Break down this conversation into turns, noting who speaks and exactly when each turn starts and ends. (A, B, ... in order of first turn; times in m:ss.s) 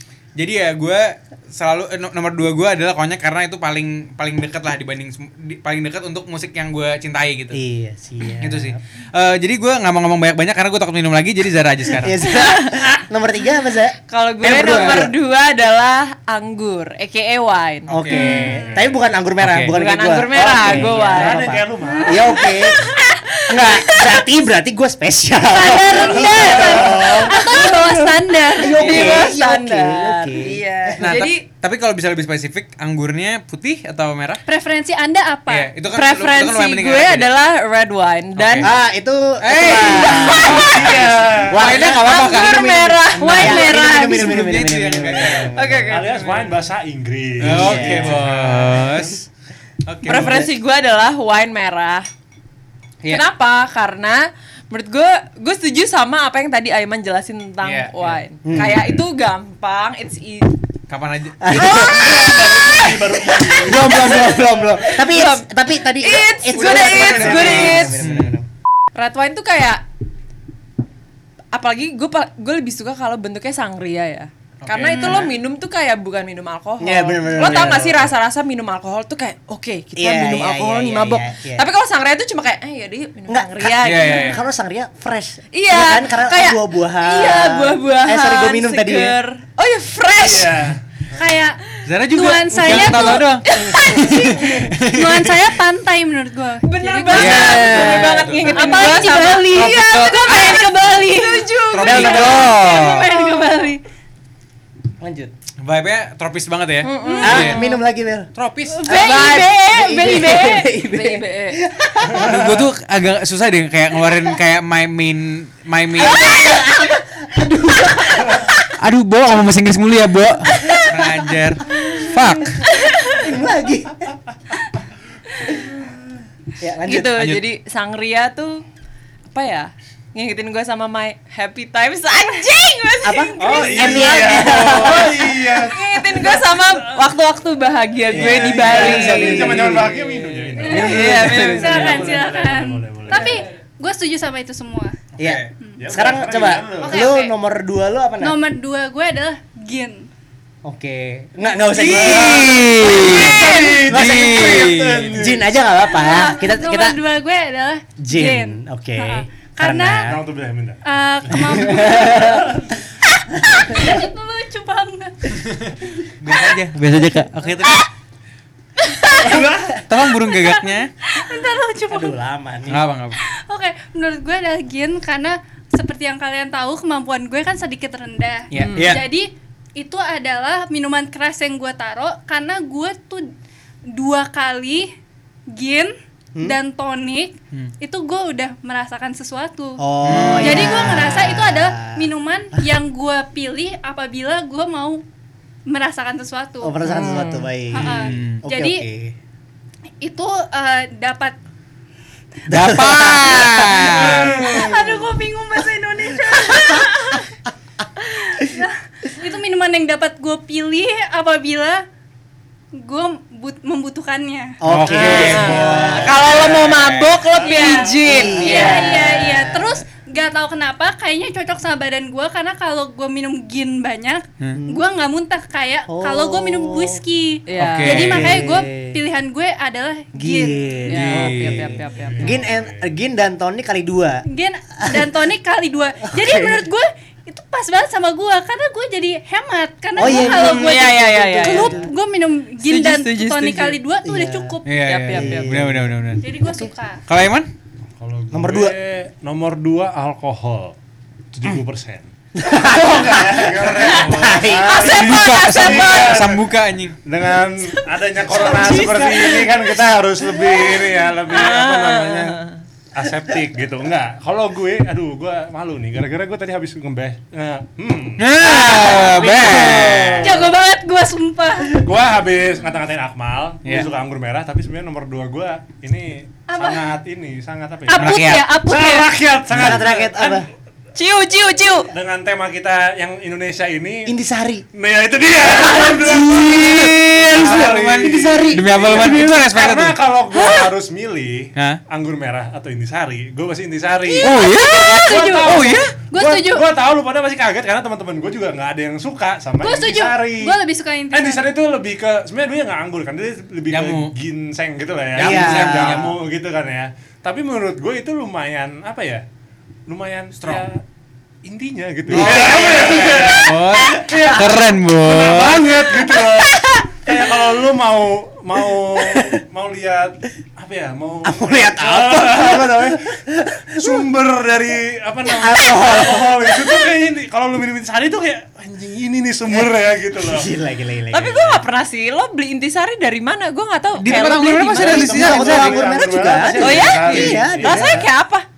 0:00.4-0:07.6 A
0:07.5-0:08.8 B
0:08.4-0:12.2 A
0:11.9-0:15.1 B
0:12.3-0:12.9 C
0:14.1-0:18.4 C
0:17.9-0:22.8 B
0:17.9-0:18.4 A
0:18.1-0:18.7 D
0:18.5-0:19.0 E
0:19.4-0:19.7 A
0:19.7-0:24.3 C
0:20.3-0:22.6 E
0:23.5-0:27.4 B
0:25.5-0:28.8 D
0:25.8-0:31.4 C
0:25.9-0:27.2 E
0:28.6-0:31.1 B
0:28.8-0:29.2 A
0:31.0-0:34.4 A
0:34.5-0:35.7 D
0:35.5-0:37.3 A
0:35.9-0:38.7 C
0:38.4-0:38.7 A
0:38.6-0:45.9 B
0:39.4-0:40.9 A
0:39.8-0:41.1 C
0:40.4-0:41.7 E
0:41.5-0:42.7 A
0:41.7-0:44.4 C
0:43.2-0:44.0 D
0:43.2-0:45.5 A
0:45.5-0:46.5 C
0:45.9-0:48.9 E
0:47.4-0:48.4 B
0:47.4-0:49.2 A
0:49.9-0:50.5 A
0:50.0-0:52.1 C
0:50.1-0:50.5 B
0:53.1-1:00.5 C
0:57.6-0:59.0 A
0:58.4-0:58.8 B
1:00.9-1:01.6 A
1:01.4-1:08.5 B
1:01.5-1:08.0 C
1:01.8-1:04.3 E
1:06.5-1:08.4 A
1:07.1-1:07.8 E
1:08.9-1:09.8 C
1:11.5-1:24.4 C
1:14.6-1:15.3 A
1:14.9-1:15.3 D
1:16.8-1:18.1 B
1:20.0-1:21.6 B
1:23.3-1:29.2 B
1:23.8-1:24.4 A
1:25.5-1:30.6 C
1:30.2-1:31.2 E
1:31.2-1:33.3 D
1:31.9-1:35.5 A
1:32.6-1:34.7 C
1:33.5-1:34.6 B
1:34.8-1:43.8 D
1:36.6-1:42.5 C
1:37.1-1:39.0 A
1:37.2-1:38.3 B
1:39.5-1:40.6 A
1:41.7-1:43.1 A
1:41.8-1:42.6 B
1:45.0-1:45.3 B
1:45.6-1:47.6 A
1:46.8-1:47.8 C
1:47.0-1:47.7 D
1:47.2-1:48.3 B
1:48.4-1:48.8 A
1:48.8-1:51.6 C
1:48.8-1:50.6 D
1:48.8-1:52.4 B
1:52.1-1:52.6 E
1:52.2-1:56.4 A
1:56.0-1:58.5 B
1:58.7-2:02.6 A
2:00.6-2:01.1 B
2:02.7-2:03.3 C
2:03.0-2:04.1 B
2:06.6-2:07.2 B
2:06.9-2:08.6 C
2:07.2-2:07.4 A
2:09.3-2:22.2 C
2:13.0-2:15.3 B
2:13.4-2:16.4 E
2:18.1-2:20.0 B
2:18.1-2:23.4 E
2:20.6-2:25.0 D
2:20.8-2:21.6 B
2:23.1-2:23.4 C
2:25.2-2:25.5 A
2:25.2-2:28.4 B
2:25.8-2:27.1 E
2:26.8-2:27.3 D
2:28.2-2:30.1 D
2:30.6-2:37.0 B
2:31.7-2:35.2 A
2:31.8-2:32.6 E
2:33.1-2:33.7 D
2:33.1-2:35.5 E
2:35.9-2:40.2 D
2:38.0-2:40.2 B
2:40.0-2:42.7 E
2:40.8-2:42.4 D
2:41.3-2:42.5 B
2:43.4-2:43.9 B
2:43.4-2:45.4 D
2:46.2-2:47.9 A
2:47.0-2:47.3 B
2:48.8-2:49.5 D
2:49.2-2:49.8 B
2:49.3-2:49.7 E
2:49.9-2:50.9 A
2:50.3-2:52.2 D
2:51.9-2:52.8 B
2:52.7-2:53.2 A
2:53.2-3:03.3 D
2:58.5-2:59.0 A
2:58.6-2:59.0 C
2:58.8-2:59.0 B
3:03.9-3:04.9 D
3:05.5-3:15.0 D
3:09.8-3:12.6 B
3:10.0-3:11.1 A
3:15.7-3:16.8 D
3:16.6-3:19.2 B
3:16.8-3:17.5 C
3:17.7-3:18.8 D
3:17.8-3:18.4 A
3:20.0-3:21.4 D
3:22.5-3:24.7 B
3:22.5-3:24.4 A
3:23.9-3:24.9 E
3:24.0-3:27.3 D
3:26.3-3:26.9 B
3:28.0-3:31.8 D
3:32.8-3:34.6 D
3:34.6-3:36.4 B
3:34.6-3:37.3 A
3:34.9-3:39.2 C
3:37.4-3:50.8 D
3:37.4-3:37.8 E
3:38.0-3:39.7 B
3:44.5-3:44.8 B
3:45.9-3:47.0 B
3:47.5-3:48.1 C
3:47.6-3:48.4 A
3:47.9-3:49.0 B
3:50.2-3:54.2 B
3:50.9-3:52.4 C
3:51.0-3:51.7 A
3:52.0-3:52.9 E
3:54.3-4:04.7 D
3:54.8-3:55.1 B
3:56.0-3:56.7 B
4:00.0-4:01.9 B
4:00.0-4:01.8 C
4:02.6-4:03.8 C
4:04.0-4:04.6 B
4:04.7-4:06.3 A
4:04.8-4:05.6 C
4:05.1-4:06.7 B
4:06.2-4:07.0 D
4:07.1-4:07.5 A
4:08.0-4:10.8 E
4:08.3-4:08.8 B
4:11.3-4:16.5 E
4:12.4-4:15.0 B
4:14.7-4:16.2 C
4:14.8-4:17.0 A
4:17.0-4:22.4 E
4:17.7-4:19.6 C
4:18.3-4:19.3 B
4:20.3-4:22.6 C
4:22.9-4:30.5 E
4:28.2-4:30.4 A
4:28.4-4:30.3 B
4:30.2-4:31.8 D
4:31.7-4:40.5 E
4:36.5-4:36.9 D
4:37.9-4:39.1 D
4:37.9-4:38.4 A
4:39.5-4:40.5 B
4:41.0-4:41.9 C
4:41.9-4:44.1 E
4:44.1-4:44.6 B
4:44.7-5:00.6 E
4:45.6-4:50.0 A
4:47.3-4:48.8 B
4:54.0-4:56.7 D
4:54.2-4:55.9 A
4:59.6-5:01.5 D
5:01.1-5:09.2 E
5:03.7-5:04.1 A
5:05.2-5:06.2 A
5:05.2-5:06.1 B
5:09.9-5:10.8 E
5:10.4-5:10.7 A
5:11.4-5:23.1 E
5:12.1-5:14.4 B
5:12.1-5:15.7 A
5:19.0-5:19.4 B
5:21.2-5:24.0 B
5:23.7-5:30.5 E
5:25.4-5:26.6 B
5:30.2-5:31.6 B
5:31.1-5:35.1 C
5:34.0-5:35.8 A
5:34.7-5:38.1 E
5:34.8-5:38.1 B
5:36.6-5:38.5 C